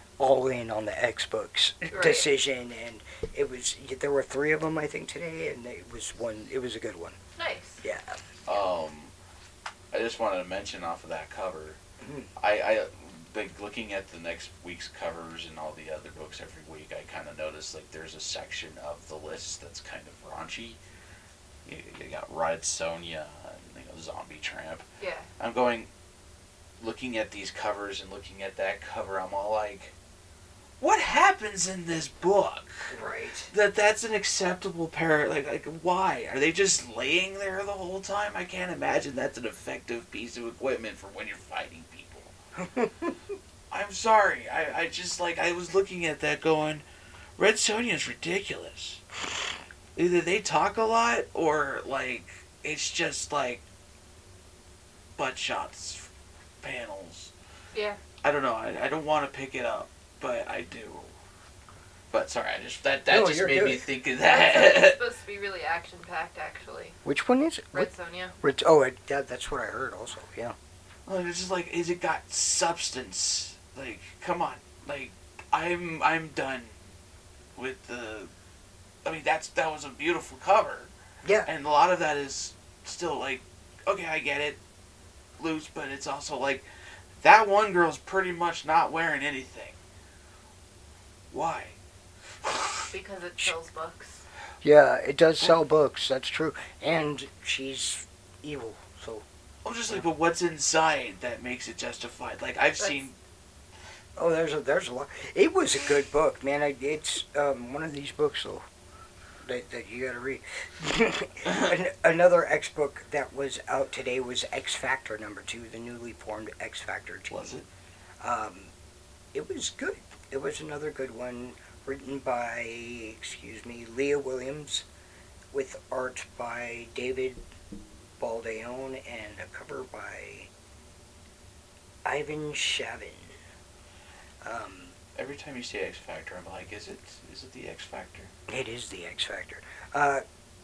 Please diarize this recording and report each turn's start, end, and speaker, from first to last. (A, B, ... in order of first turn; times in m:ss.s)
0:00.2-0:07.2 A
0:01.9-0:02.2 B
0:07.4-0:07.8 B
0:07.8-0:08.2 A
0:08.4-0:09.1 C
0:09.9-0:11.8 C
0:12.0-0:12.3 A
0:12.4-0:20.8 C
0:21.6-0:24.8 C
0:25.0-0:25.3 B
0:25.4-0:25.9 C
0:26.8-0:29.9 C
0:30.8-0:32.9 C
0:32.9-0:33.5 A
0:33.5-0:42.3 C
0:42.6-0:43.2 A
0:43.7-0:46.8 C
0:47.4-0:49.0 C
0:49.9-0:53.6 C
0:55.2-0:56.1 C
0:56.6-0:57.3 C
0:57.7-0:58.0 B
0:58.2-1:01.1 C
1:02.1-1:05.0 C
1:03.1-1:03.9 A
1:04.2-1:07.0 B
1:07.0-1:07.9 A
1:07.7-1:08.3 B
1:08.4-1:10.6 A
1:11.1-1:16.7 C
1:17.6-1:18.3 C
1:19.0-1:20.9 C
1:21.2-1:21.5 A
1:21.4-1:24.6 C
1:25.4-1:26.6 C
1:27.2-1:29.8 C
1:31.3-1:31.8 C
1:32.4-1:32.9 C
1:32.9-1:34.2 B
1:34.6-1:39.2 A
1:39.6-1:43.2 C
1:42.8-1:43.0 B
1:44.2-1:48.6 A
1:49.4-1:57.5 A
1:57.3-1:57.6 C
1:58.2-1:58.7 A
1:59.3-2:04.8 A
2:05.5-2:07.4 A
2:08.2-2:10.5 A
2:12.0-2:13.3 A
2:14.4-2:15.0 A
2:15.2-2:18.3 C
2:18.5-2:20.2 A